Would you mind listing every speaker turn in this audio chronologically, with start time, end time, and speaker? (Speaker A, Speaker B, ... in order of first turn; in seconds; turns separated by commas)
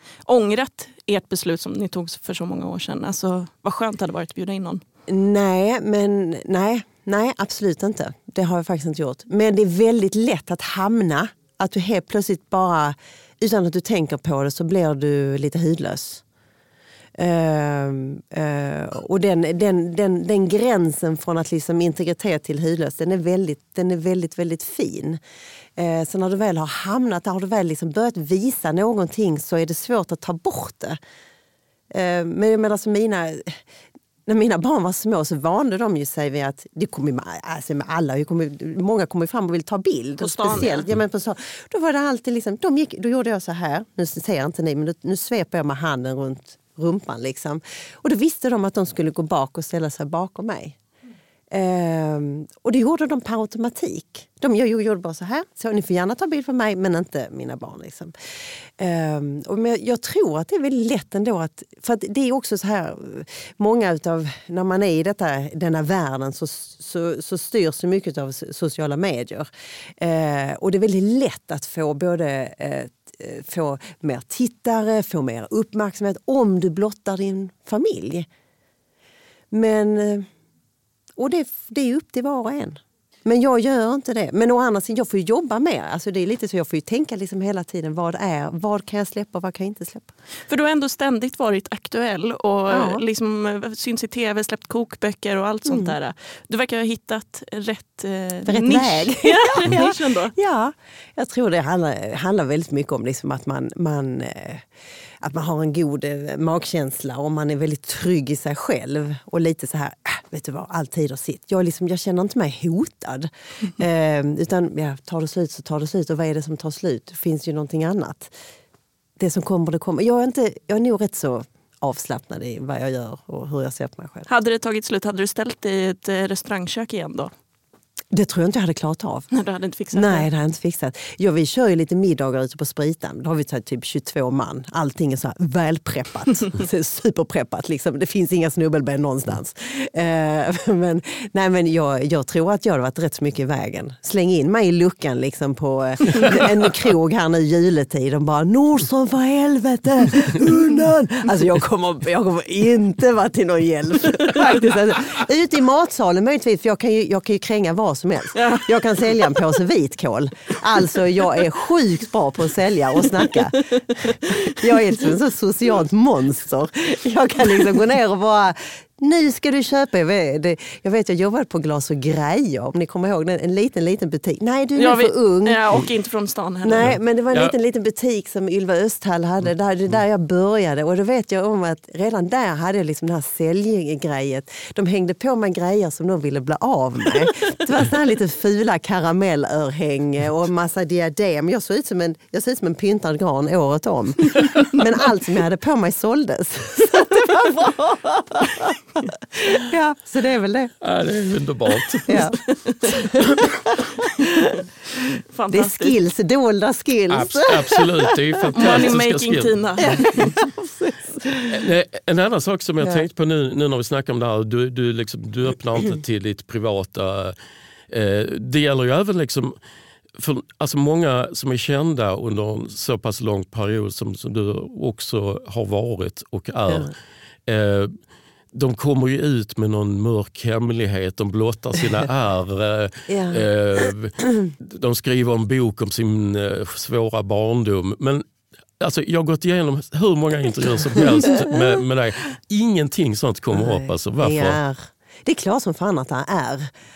Speaker A: 0.3-4.8, Speaker B: 5.1-16.2, Speaker B: 17.1-25.2, Speaker B: 25.8-31.0, Speaker B: 31.9-33.6, Speaker B: 34.2-50.8, Speaker A: 40.2-40.9, Speaker B: 51.5-58.1, Speaker B: 58.8-78.3, Speaker B: 79.5-80.3, Speaker B: 81.2-90.1, Speaker A: 90.5-100.3, Speaker B: 92.7-93.0, Speaker B: 95.7-95.9, Speaker B: 98.5-104.7, Speaker B: 105.2-118.3, Speaker B: 119.2-124.3, Speaker A: 124.3-127.3, Speaker B: 128.1-129.3, Speaker A: 129.3-130.3, Speaker B: 129.9-175.6, Speaker A: 158.3-159.3, Speaker A: 164.1-164.6, Speaker A: 174.8-176.9, Speaker B: 176.6-200.7, Speaker C: 176.8-177.5, Speaker C: 200.8-202.2, Speaker B: 202.1-203.8, Speaker A: 202.1-202.9, Speaker A: 205.3-205.9, Speaker B: 205.5-208.9, Speaker C: 207.1-210.0, Speaker A: 208.6-210.3, Speaker B: 209.8-211.6, Speaker C: 211.5-217.3, Speaker B: 212.8-213.1, Speaker C: 217.9-219.6, Speaker C: 220.2-226.9, Speaker B: 226.7-226.9, Speaker C: 227.5-227.9, Speaker C: 228.5-238.2, Speaker B: 233.1-233.9, Speaker C: 238.8-244.6, Speaker B: 240.9-241.7, Speaker B: 243.5-246.7